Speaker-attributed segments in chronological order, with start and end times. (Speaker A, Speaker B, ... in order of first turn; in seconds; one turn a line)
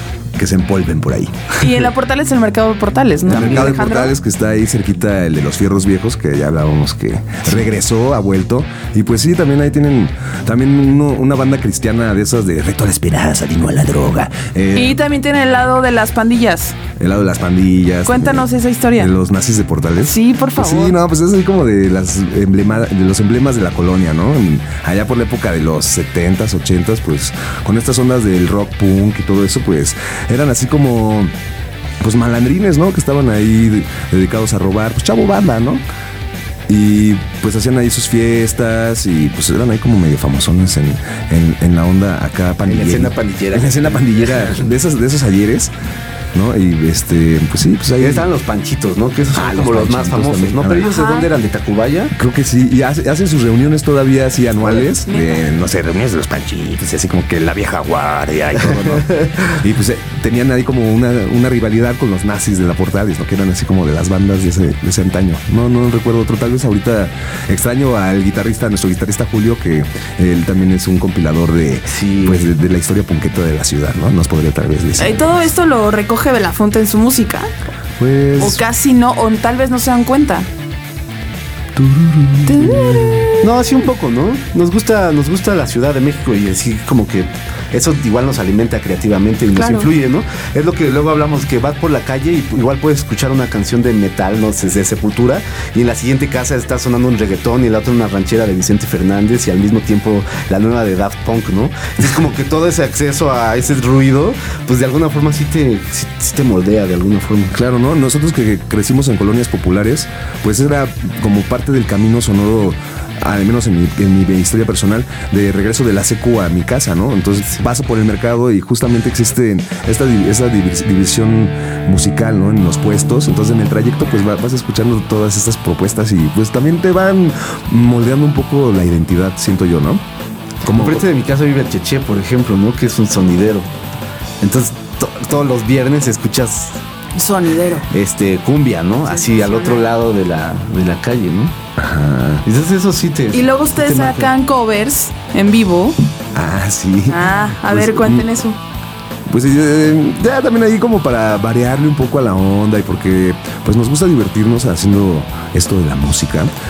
Speaker A: 0.3-1.5
Speaker B: 1.6-4.1
Speaker A: 3.2-15.0
Speaker B: 14.7-16.8
Speaker A: 17.0-31.3
Speaker B: 18.1-19.1
Speaker B: 20.0-21.0
Speaker A: 32.0-35.8
Speaker A: 36.7-45.7
Speaker C: 42.6-44.6
Speaker A: 46.3-48.3
Speaker C: 48.0-52.1
Speaker A: 49.3-50.9
Speaker B: 50.8-51.3
Speaker A: 52.1-75.5
Speaker B: 55.0-55.4
Speaker C: 58.8-59.4
Speaker C: 71.9-72.4
Speaker B: 75.0-77.5
Speaker A: 78.0-78.6
Speaker B: 78.4-80.5
Speaker A: 81.8-83.2
Speaker B: 82.5-83.5
Speaker C: 83.4-107.5
Speaker B: 89.5-89.9
Speaker A: 107.5-130.0
Speaker A: 130.6-131.1
Speaker C: 130.7-133.7
Speaker C: 134.4-136.8
Speaker B: 137.2-137.9
Speaker C: 137.9-141.6
Speaker B: 139.1-139.9
Speaker A: 141.8-142.4
Speaker C: 142.4-144.3
Speaker B: 143.3-146.0
Speaker A: 146.3-148.3
Speaker B: 147.1-148.6
Speaker A: 149.3-156.5